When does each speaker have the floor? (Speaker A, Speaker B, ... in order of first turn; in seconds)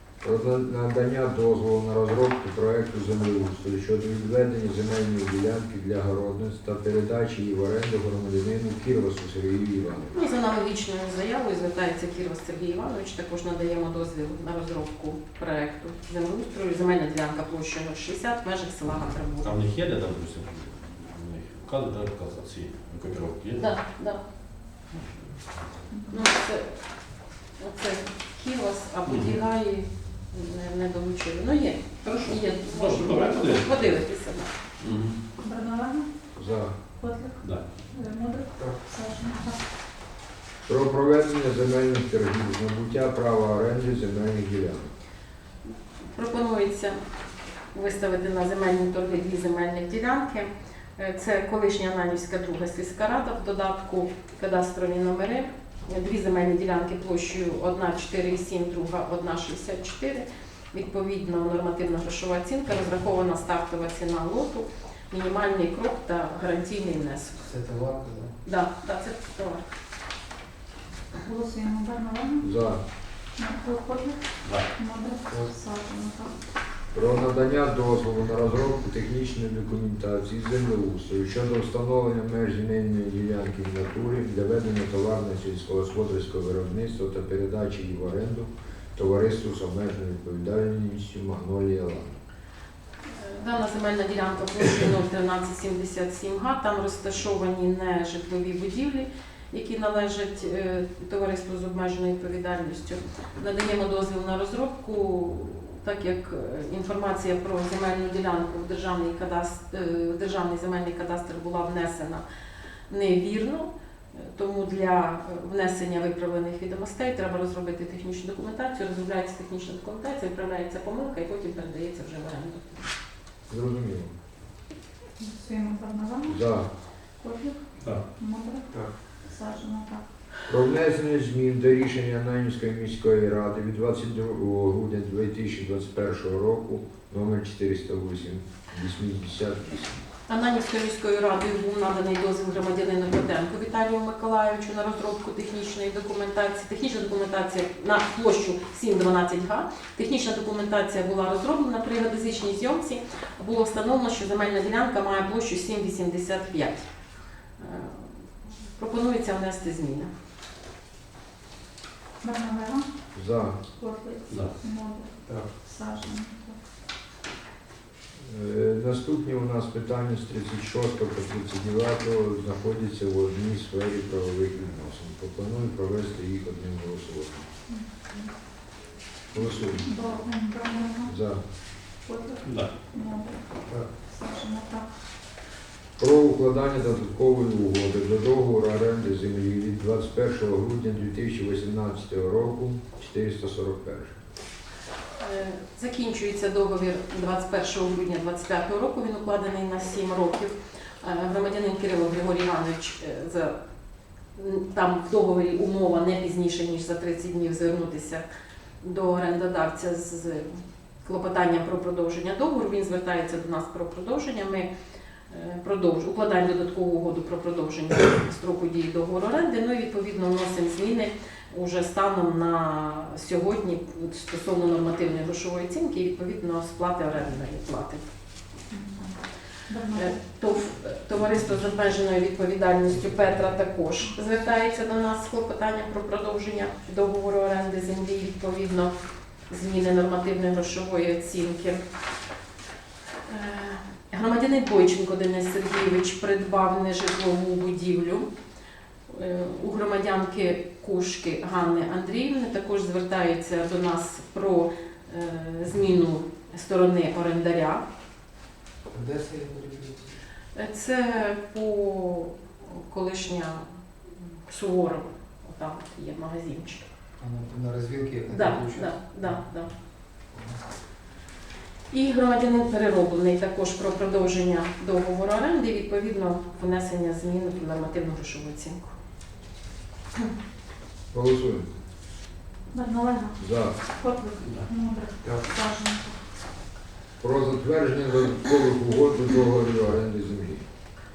Speaker A: 0.2-10.2, 36.4-36.8, 40.7-44.9, 72.4-72.8, 76.9-92.2, 123.5-124.1, 126.3-126.7, 130.5-140.0, 163.1-163.6, 168.2-177.5, 179.3-179.9, 181.1-181.4, 186.0-194.2, 281.1-281.7, 283.4-283.7, 287.2-290.6
Speaker B: 10.1-19.5, 23.6-24.2, 26.1-26.7, 27.6-34.5, 45.7-47.0, 47.7-67.4, 68.4-69.6, 93.1-112.2, 112.9-122.8, 140.3-156.9, 157.6-160.1, 195.2-203.6, 204.3-208.2, 208.8-214.7, 215.3-228.0, 229.9-238.9, 239.5-241.8, 243.3-248.3, 249.1-257.8, 260.5-263.7, 264.5-266.8, 268.3-269.7, 271.9-278.9
Speaker C: 19.4-23.7, 29.1-29.4, 32.6-34.0, 34.8-35.2, 37.4-37.7, 164.3-164.5, 182.4-182.7
Speaker D: 25.9-26.3, 35.4-36.1, 37.0-37.4, 37.9-39.6, 71.2-72.5, 73.4-74.2, 74.8-76.3, 125.2-126.4, 127.2-127.6, 128.2-128.7, 129.2-130.0, 162.2-162.9, 163.8-165.1, 165.6-166.6, 177.7-178.3, 179.8-181.1, 182.0-183.4, 184.1-184.9, 228.7-230.2, 282.7-286.2
Speaker E: 38.5-38.8, 67.4-68.3, 75.3-75.5, 165.2-165.5, 183.7-184.0, 258.9-260.2, 267.2-269.0, 270.3-270.6